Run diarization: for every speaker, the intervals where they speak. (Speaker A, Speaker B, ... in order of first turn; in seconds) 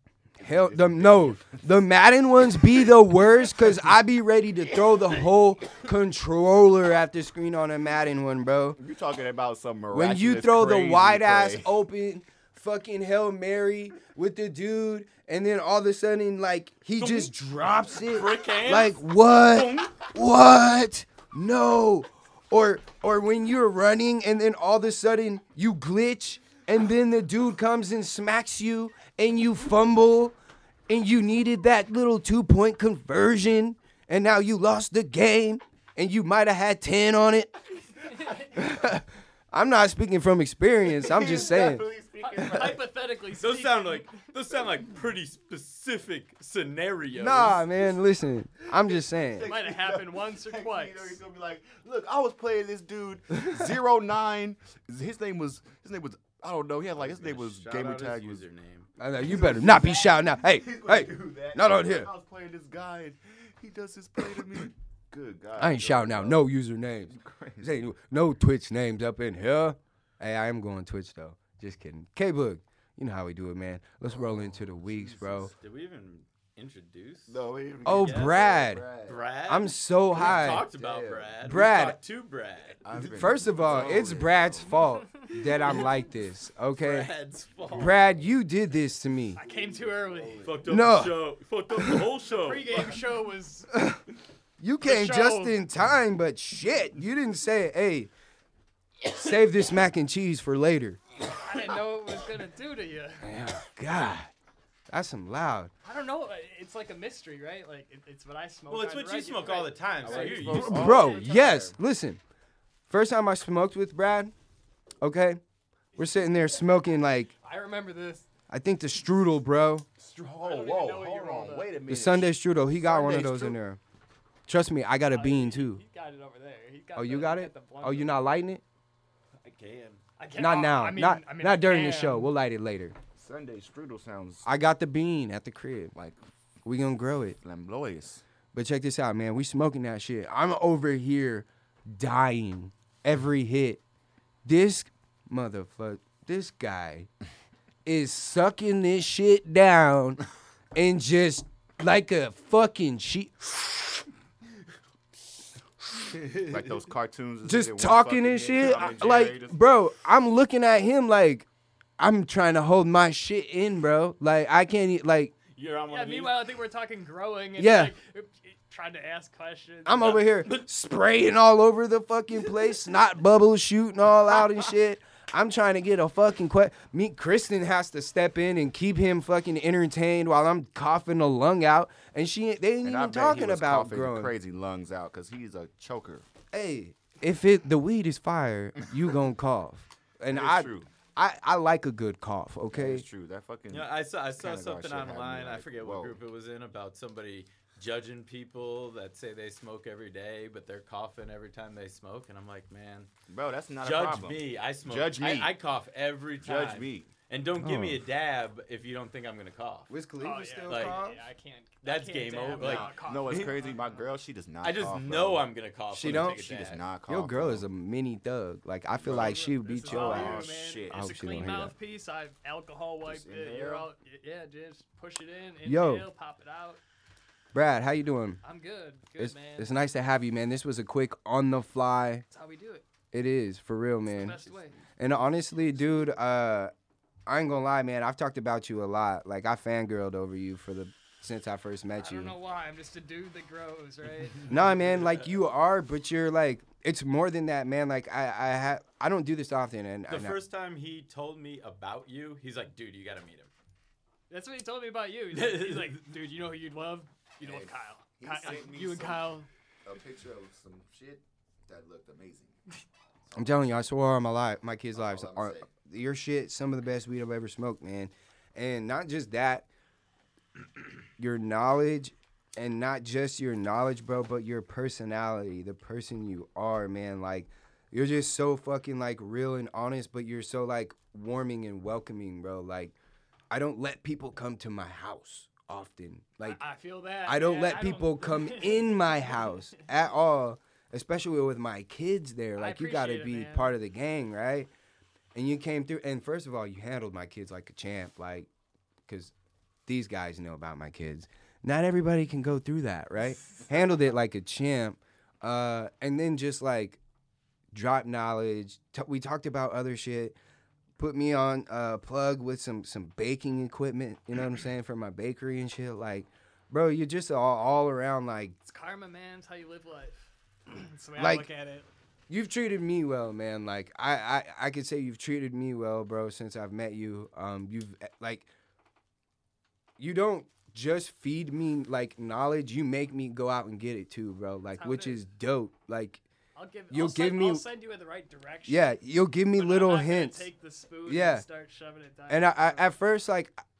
Speaker A: 0.4-1.6, 8.8-11.7, 40.8-42.9, 48.9-58.4, 59.2-66.4, 67.1-67.8, 74.1-75.5, 77.3-79.2, 80.1-81.4, 82.8-84.8, 87.8-88.0, 89.3-90.8, 110.0-111.8, 120.0-123.6, 133.2-134.5, 137.4-138.2, 156.2-159.6, 182.8-186.2, 190.3-190.9, 192.7-196.2, 203.3-205.5, 206.4-207.1, 212.6-217.7, 219.0-221.2, 223.0-223.9, 257.4-259.3, 259.8-262.6, 264.9-265.7
Speaker B: 0.4-8.8, 9.9-30.4, 30.9-37.5, 38.5-41.9, 47.1-49.5, 53.3-53.7, 59.0-62.1, 65.5-75.5, 77.8-78.8, 79.5-80.7, 81.4-82.0, 82.9-87.1, 87.7-89.4, 90.6-91.2, 93.7-94.0, 94.6-98.1, 99.0-101.0, 103.2-104.3, 104.9-105.7, 110.5-112.2, 112.9-114.3, 115.0-115.4, 116.0-117.3, 118.5-119.9, 121.9-123.8, 124.5-125.8, 126.9-128.6, 130.3-132.9, 134.4-135.9, 136.6-137.4, 138.5-143.8, 144.4-147.1, 147.8-150.2, 150.7-154.0, 157.4-161.5, 162.0-165.3, 167.6-167.9, 169.8-184.3, 186.5-193.0, 207.6-208.0, 209.9-211.2, 215.9-216.4, 217.1-221.7, 225.6-226.1, 227.5-228.4, 229.2-232.2, 233.1-234.4, 235.0-236.7, 237.2-242.3, 244.5-250.4, 263.3-269.7, 271.2-282.9, 283.5-286.6, 287.2-294.7, 295.3-298.5, 299.1-299.3, 299.9-307.0, 307.7-310.4, 311.0-318.6, 321.2-321.5, 322.3-328.5, 330.0-336.2, 336.9-337.6, 338.6-340.5, 341.0-341.4, 342.3-343.6
Speaker C: 17.0-17.3, 17.9-20.1, 43.4-47.6, 57.0-58.9, 75.5-78.4, 79.0-82.8, 86.8-88.0, 90.4-93.0, 108.7-111.0, 129.4-130.0, 165.5-166.4, 170.2-170.6, 193.7-203.1, 203.8-209.9, 210.7-211.0, 211.8-213.5, 214.6-216.9, 244.4-245.3, 250.1-253.5, 255.3-256.0
Speaker D: 38.1-38.5, 42.2-44.1, 49.5-51.2, 84.8-85.3, 89.3-90.5, 92.3-93.7, 94.8-95.6, 101.4-103.3, 105.8-111.4, 116.0-116.4, 117.4-118.2, 120.4-121.7, 125.1-128.2, 130.2-132.3, 165.9-170.3, 210.2-214.1, 219.1-226.8, 228.4-229.8, 232.3-232.8, 234.1-234.8, 241.9-244.6, 254.3-259.5, 286.4-289.8, 292.6-293.8, 318.6-321.9, 334.7-335.2, 336.6-339.0, 339.5-342.9